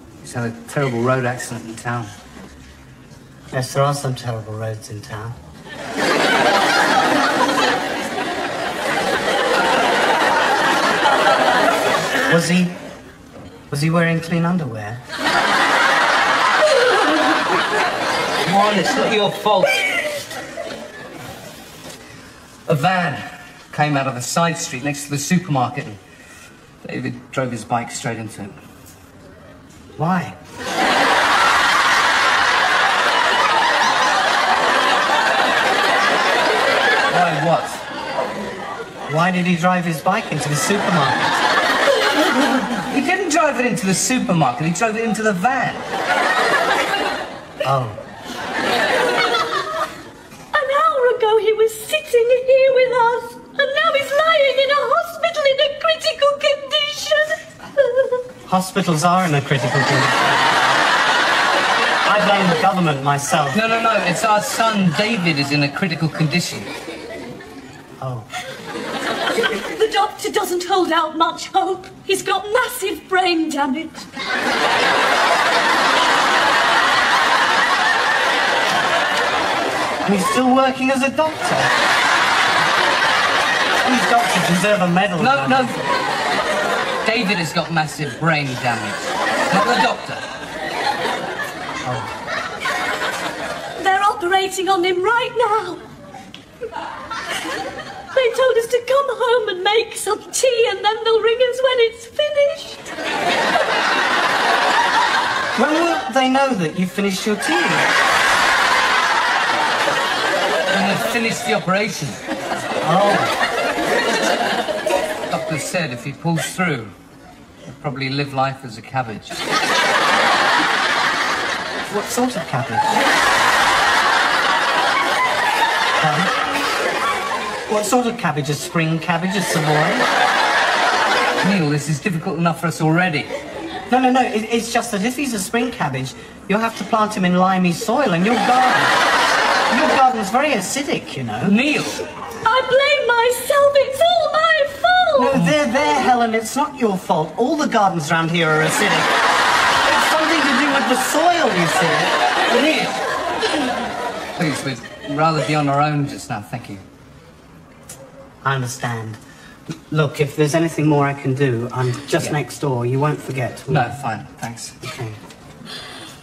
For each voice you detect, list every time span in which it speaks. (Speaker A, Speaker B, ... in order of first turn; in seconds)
Speaker A: 0.2-2.1, 18.4-19.9, 22.7-26.0, 26.8-28.6, 37.1-37.8, 42.2-45.9, 63.5-66.7, 85.2-85.8, 87.0-90.2, 110.7-112.2, 115.3-116.9, 117.7-119.4, 131.4-133.3, 141.4-142.0, 154.4-156.8, 163.7-164.8
Speaker B: 3.5-5.4, 12.3-12.8, 13.7-15.0, 30.0-30.4, 39.1-41.4, 47.6-48.0, 58.5-60.2, 62.0-63.6, 68.0-68.3, 80.0-81.7, 83.8-85.8, 91.8-92.1, 105.5-107.9, 112.8-113.4, 121.9-122.9, 126.0-126.3, 127.7-130.1, 133.9-139.0, 139.7-141.6, 145.2-149.1, 149.8-152.9, 158.4-159.2, 159.9-163.9, 164.8-165.2
Speaker C: 50.5-58.2, 69.4-74.1, 93.8-95.8, 98.1-102.8, 142.4-145.4